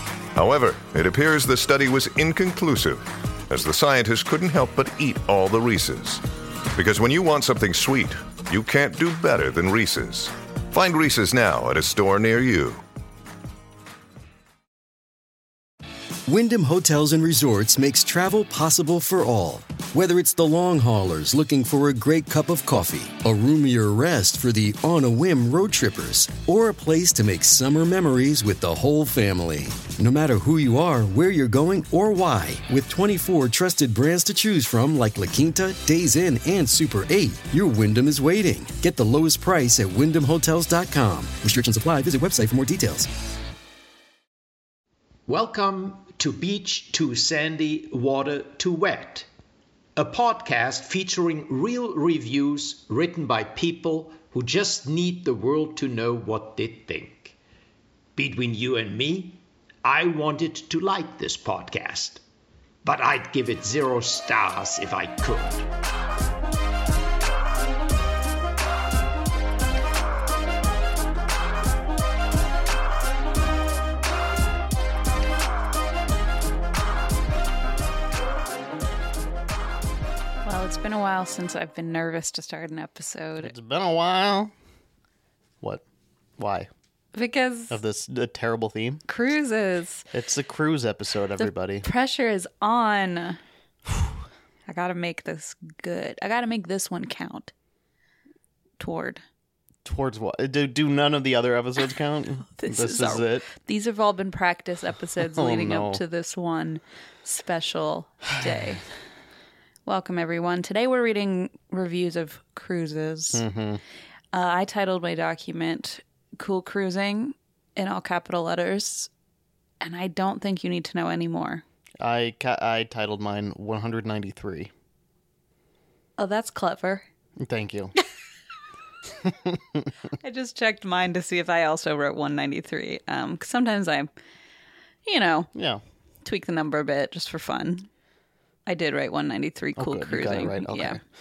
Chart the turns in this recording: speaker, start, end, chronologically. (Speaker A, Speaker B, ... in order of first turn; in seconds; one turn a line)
Speaker A: 0.3-6.2
Speaker A: 6.7-12.8
Speaker B: 16.2-43.1
Speaker C: 45.3-49.3
Speaker C: 50.0-57.4
Speaker C: 58.1-62.2
Speaker C: 62.8-65.7
Speaker D: 80.4-83.5
Speaker E: 83.4-84.5
Speaker E: 86.4-86.7
Speaker D: 87.1-87.8
Speaker E: 87.7-89.0
Speaker D: 89.1-90.1
Speaker E: 90.1-91.8
Speaker D: 91.4-93.4
Speaker D: 94.7-97.5
Speaker D: 98.8-99.2
Speaker E: 99.8-103.5
Speaker D: 102.5-108.8
Speaker E: 105.2-106.0
Speaker D: 109.8-113.4
Speaker E: 113.3-113.8
Speaker D: 114.3-119.1
Speaker D: 119.8-121.6
Speaker E: 122.0-124.7
Speaker D: 126.2-127.0
Speaker E: 127.4-127.9
Speaker E: 129.2-129.9
Speaker D: 130.2-134.1
Speaker D: 135.0-135.5
Speaker E: 135.5-135.8
Speaker D: 136.2-137.9
Speaker D: 138.7-141.0
Speaker E: 139.8-141.0